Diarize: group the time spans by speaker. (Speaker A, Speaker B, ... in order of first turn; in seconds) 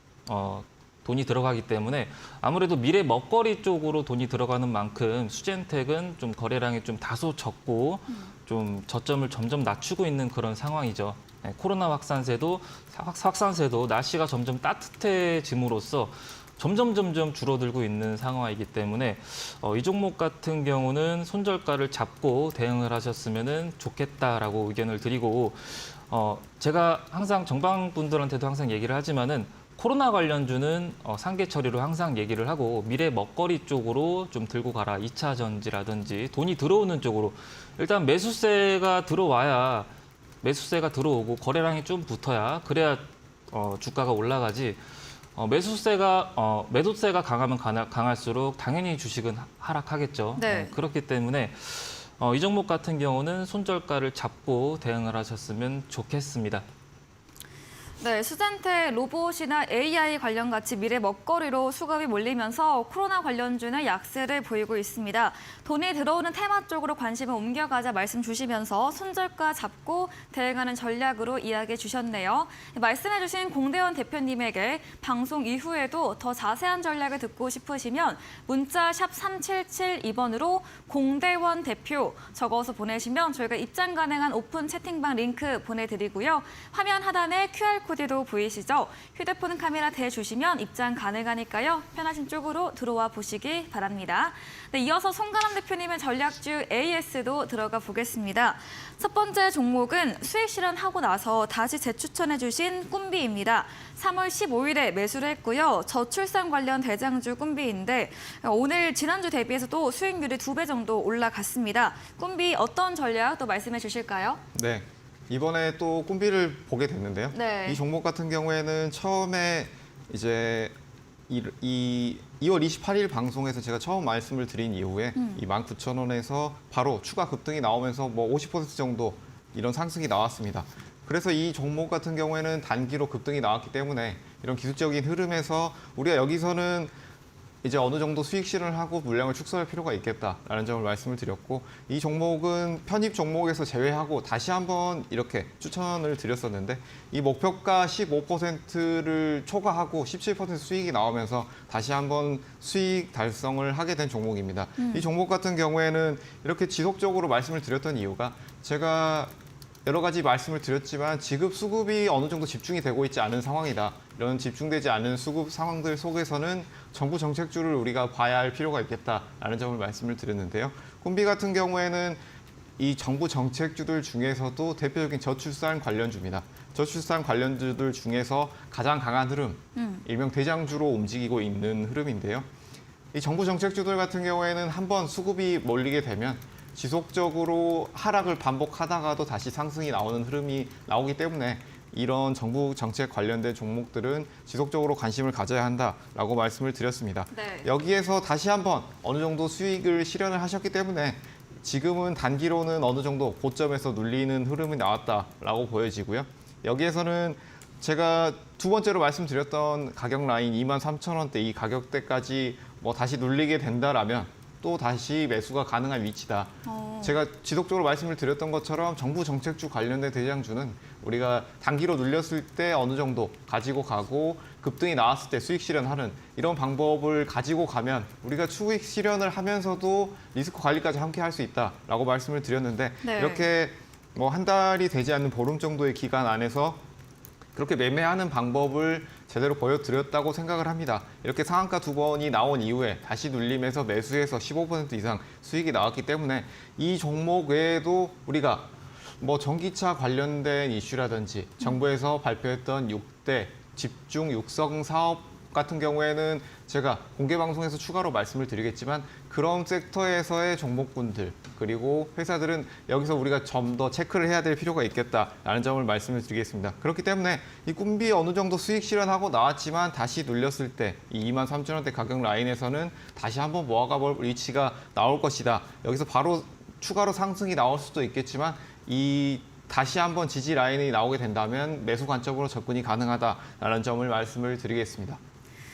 Speaker A: 0.3-39.9, 40.4-44.8, 45.4-56.6
Speaker B: 50.4-50.7, 58.0-114.4, 117.3-117.8, 125.2-125.4, 154.8-155.1, 179.8-180.0, 197.3-197.7, 216.6-217.2, 233.0-233.5
Speaker C: 114.5-120.7, 121.3-136.9, 137.6-159.3, 159.8-172.2, 172.8-182.4, 183.1-236.8, 237.6-285.2